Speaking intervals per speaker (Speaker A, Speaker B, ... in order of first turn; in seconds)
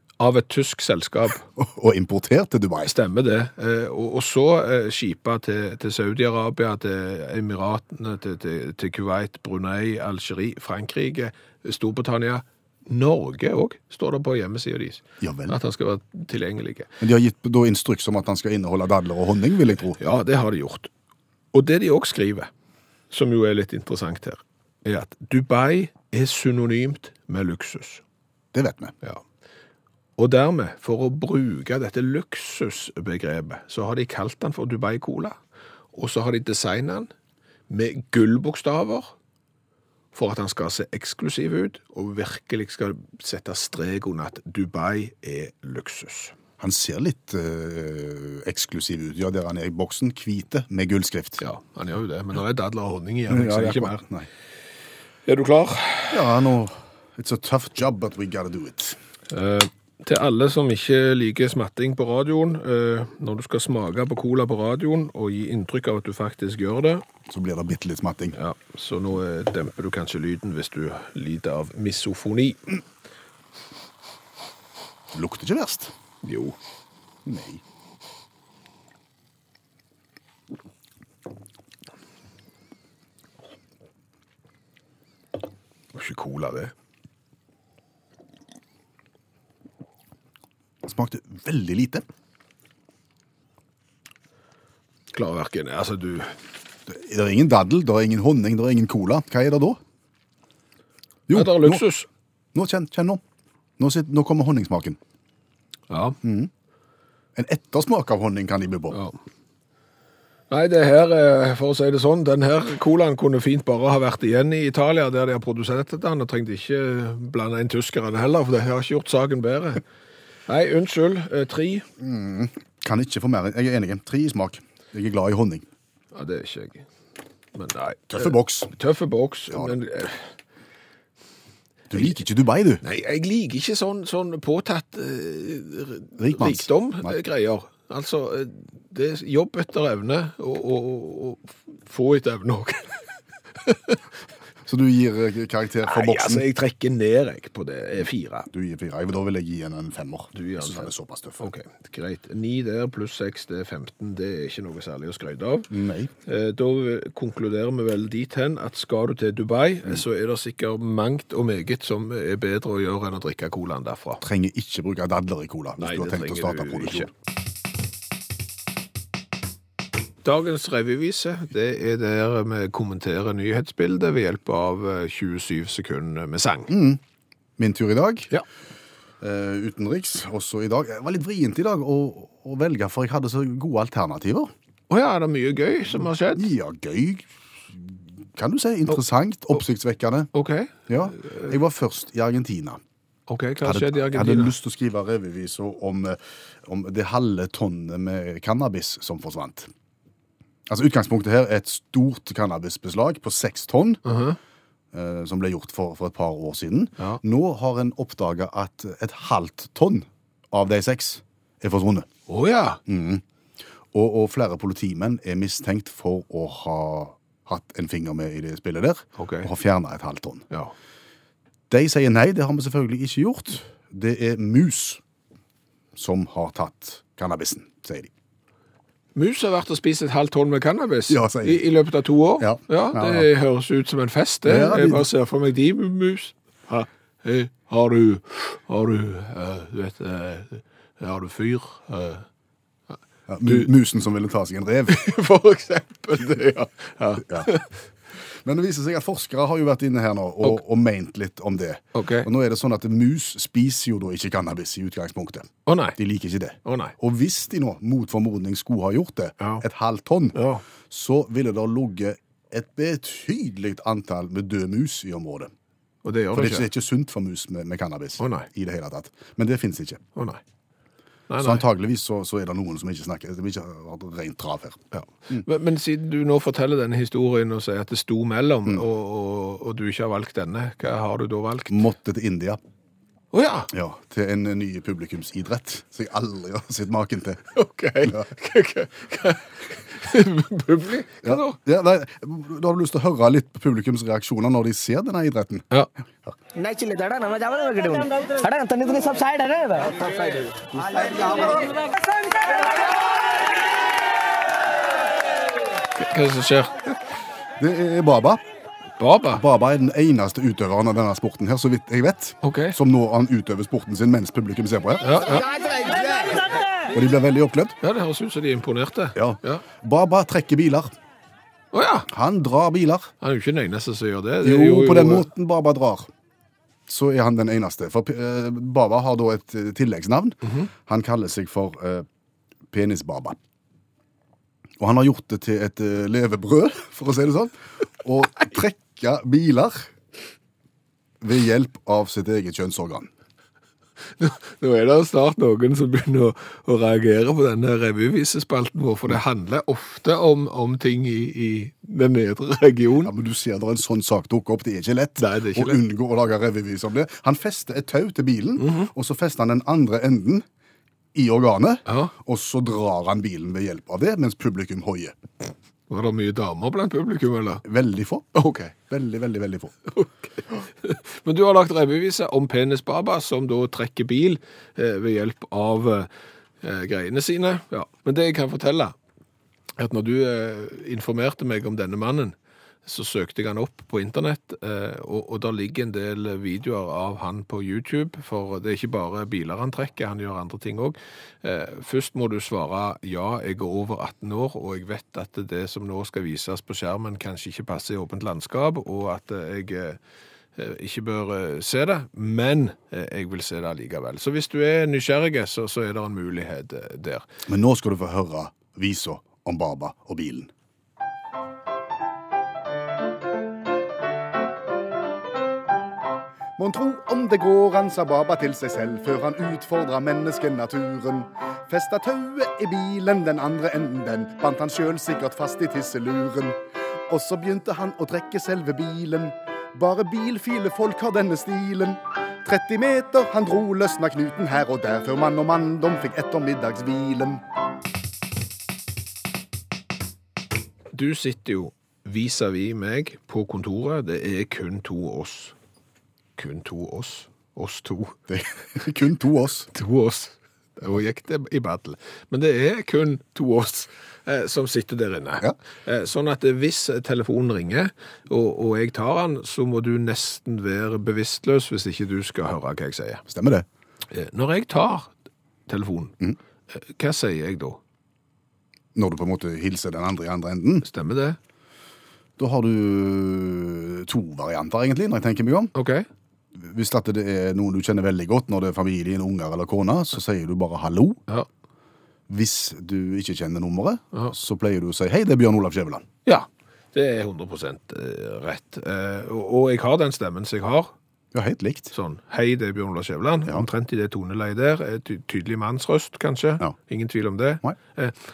Speaker A: 0.2-1.4, 2.8-16.9, 20.0-20.9, 21.5-22.5, 23.1-28.0, 30.2-35.4, 35.9-37.1, 37.7-39.1, 40.1-46.3, 51.4-54.0, 55.2-56.2, 59.3-67.0, 68.3-72.8, 76.2-76.5, 85.9-86.7, 95.1-96.3, 101.3-102.1, 105.9-106.2, 108.9-109.2, 110.5-119.8, 120.5-121.8, 126.1-126.8, 127.5-130.3, 132.8-143.0, 143.6-144.0, 145.8-148.5, 150.3-155.7, 156.2-164.2, 165.8-167.1, 170.2-176.7, 184.9-186.5, 190.3-191.5, 193.3-194.5, 204.0-204.4, 212.3-212.8, 219.2-219.5, 229.1-242.2, 244.9-247.7, 251.9-252.3, 255.7-256.0, 256.6-256.9, 260.3-260.6, 266.0-266.7, 268.2-268.5, 270.1-270.4, 271.3-271.6, 274.9-281.8, 283.3-283.7, 287.5-291.6, 306.0-306.9, 309.0-309.4, 312.4-312.8, 315.0-315.5, 317.8-319.6, 321.7-322.1, 323.2-325.3, 344.2-353.1, 355.2-355.8, 358.6-358.9, 361.9-362.1, 365.9-367.6, 368.3-368.7, 369.9-376.1, 376.6-378.9, 379.8-400.0, 400.6-407.2, 440.9-445.5, 446.4-448.2, 449.7-463.2, 464.1-465.1, 465.7-466.1, 466.7-467.8, 470.8-471.4, 475.7-476.0, 486.2-490.9, 491.9-498.1
Speaker B: 1.6-2.9, 15.2-15.6, 17.0-20.0, 28.5-28.9, 46.6-51.4, 53.3-54.3, 56.1-59.0, 67.3-68.3, 75.1-75.9, 77.2-77.6, 90.8-92.0, 96.9-99.8, 101.3-101.8, 102.5-103.2, 103.8-105.0, 106.2-106.5, 107.3-109.0, 122.0-125.7, 128.1-128.7, 129.5-129.8, 131.9-132.8, 136.2-137.2, 144.7-146.4, 148.5-151.5, 155.7-156.1, 164.2-167.1, 176.7-177.0, 177.6-178.3, 179.2-184.5, 186.3-190.3, 190.9-192.8, 193.6-199.7, 200.7-204.0, 204.9-212.1, 212.9-213.2, 213.9-220.4, 221.7-225.0, 225.9-228.1, 231.1-231.6, 232.4-233.3, 234.4-235.1, 243.3-245.0, 248.4-265.5, 266.3-270.0, 271.4-275.4, 281.7-282.6, 283.7-287.4, 291.2-295.6, 307.6-308.4, 309.3-315.4, 316.9-317.8, 319.1-320.9, 322.1-323.1, 324.4-326.1, 326.9-332.1, 332.7-333.4, 334.8-339.9, 341.2-343.1, 353.0-360.4, 361.1-365.1, 367.6-369.7, 407.5-410.5, 416.6-437.4, 448.3-449.7, 463.3-463.6, 468.9-470.9, 472.4-475.7, 476.5-481.2, 482.3-486.1, 491.3-491.9
Speaker C: 296.5-301.8, 315.8-316.3